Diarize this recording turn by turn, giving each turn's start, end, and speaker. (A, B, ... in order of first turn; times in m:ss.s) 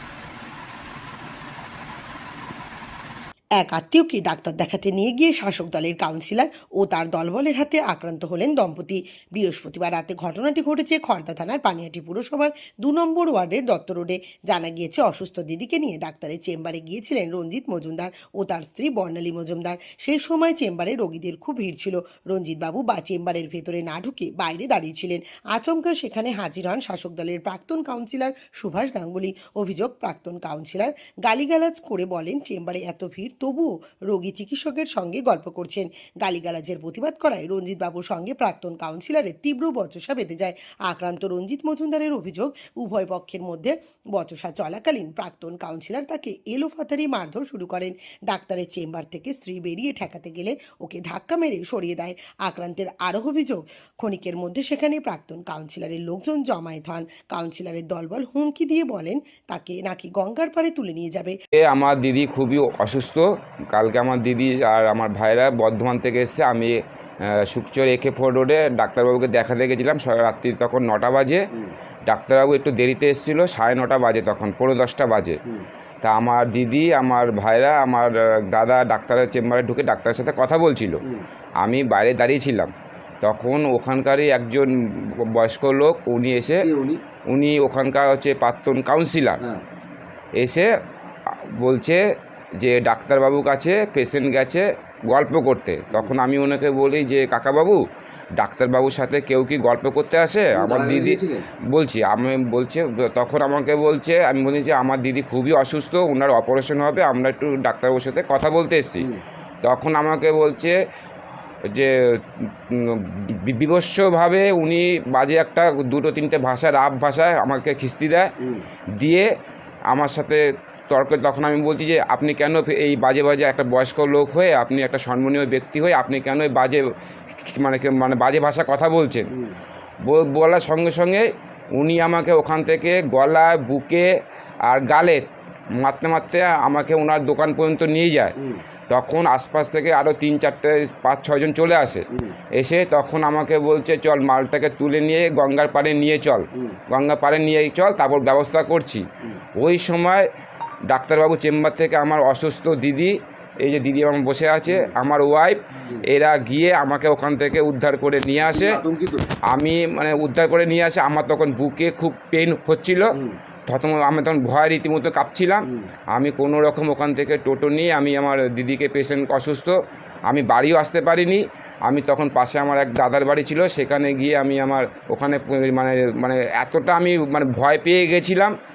0:03.6-1:01.4 A
1:01.6-1:11.4 B
1:12.1-1:15.4 B
1:16.0-1:21.0 B
1:21.6-1:26.6 B
1:26.6-1:27.0 C
1:27.3-1:29.4 B
1:29.4-1:29.6 C
1:30.4-1:30.7 B
1:31.6-1:32.0 B
1:32.6-1:37.8 B
1:38.4-1:41.2 B
1:40.5-1:41.4 C
1:41.7-1:49.1 B
1:49.6-1:50.8 B
1:51.7-1:58.3 B
1:58.4-1:58.6 C
1:59.0-1:59.3 B
1:59.9-2:06.8 B
2:07.4-2:09.3 B
2:10.1-2:11.3 B
2:11.8-2:14.1 B
2:14.7-2:15.2 B
2:15.8-2:18.3 B
2:18.4-2:18.6 C
2:18.9-2:29.0 B
2:22.1-2:22.4 C
2:29.6-2:30.3 B
2:30.9-2:38.8 B
2:34.6-2:34.9 C
2:38.4-2:39.2 C
2:39.5-2:43.1 B
2:43.1-2:43.4 C
2:43.7-2:49.7 B
2:50.3-2:58.5 B